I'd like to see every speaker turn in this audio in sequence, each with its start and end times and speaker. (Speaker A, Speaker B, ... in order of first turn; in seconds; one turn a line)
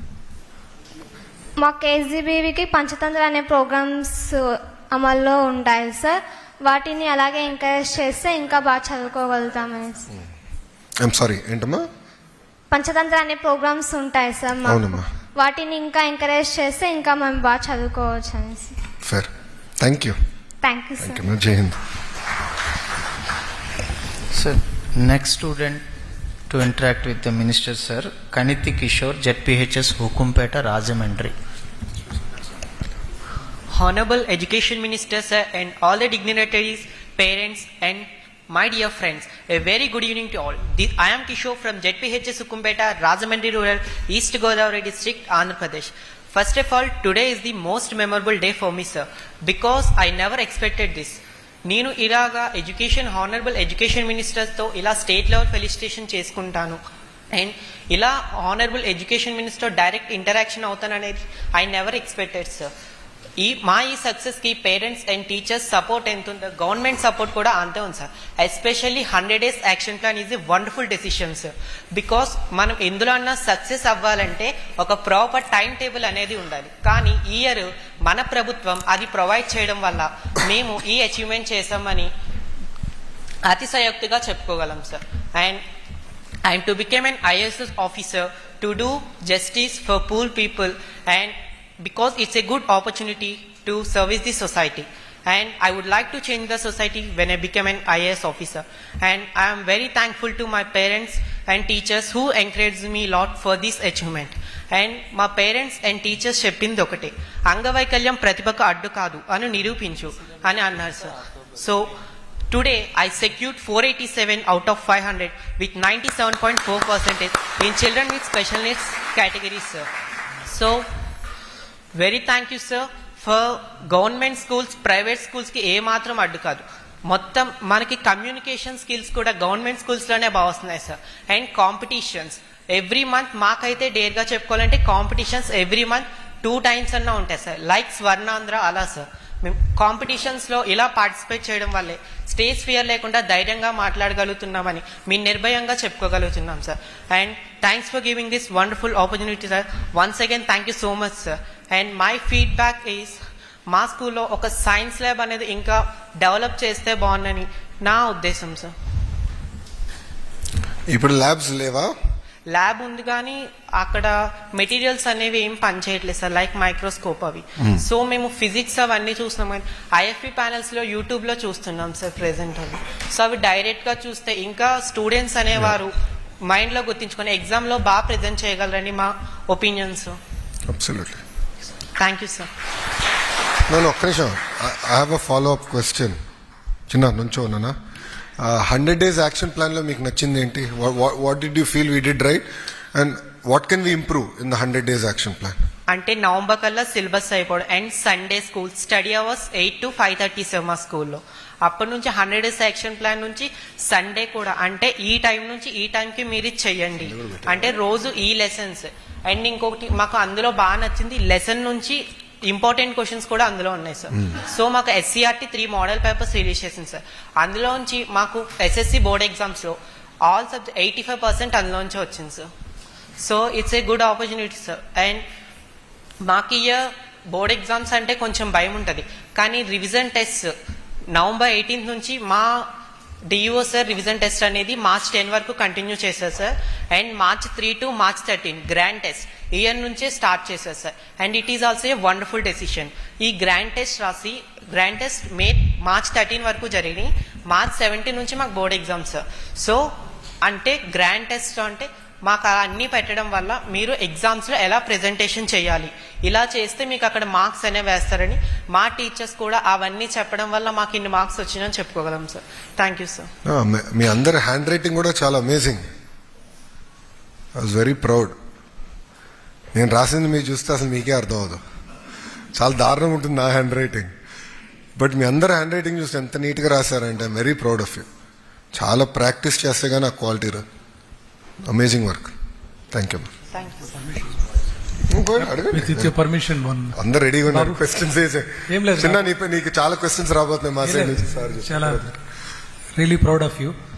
Speaker A: 1.6-10.1
Speaker B: 11.0-11.9
Speaker A: 12.7-18.7
Speaker B: 14.6-15.1
Speaker B: 19.0-20.2
Speaker A: 20.6-21.2
Speaker B: 21.0-21.8
Speaker C: 24.3-25.8
Speaker C: 26.5-31.3
Speaker D: 33.7-56.8
Speaker D: 57.3-62.7
Speaker D: 63.4-82.1
Speaker D: 83.5-85.6
Speaker D: 86.5-111.9
Speaker D: 112.5-119.8
Speaker D: 120.5-120.8
Speaker D: 122.0-153.2
Speaker D: 153.7-158.7
Speaker B: 160.9-161.9
Speaker D: 162.5-175.9
Speaker B: 167.6-167.8
Speaker D: 176.5-180.2
Speaker B: 180.7-181.2
Speaker D: 182.0-182.5
Speaker B: 183.7-186.2
Speaker B: 186.9-187.8
Speaker B: 188.4-195.6
Speaker D: 195.9-222.5
Speaker B: 207.0-207.8
Speaker D: 223.2-225.2
Speaker D: 226.2-230.5
Speaker D: 231.1-232.7
Speaker D: 233.3-249.8
Speaker D: 250.4-263.3
Speaker B: 263.4-265.9
Speaker B: 267.6-268.4
Speaker B: 269.7-271.6
Speaker B: 272.5-274.1
Speaker B: 275.0-278.1
Speaker B: 278.7-280.6
Speaker B: 281.6-282.3
Speaker B: 282.9-283.3
Speaker D: 283.5-283.9
Speaker B: 285.1-286.2
Speaker E: 285.6-287.9
Speaker B: 286.9-292.1
Speaker E: 288.7-289.3
Speaker E: 290.8-292.0
Speaker E: 292.9-293.7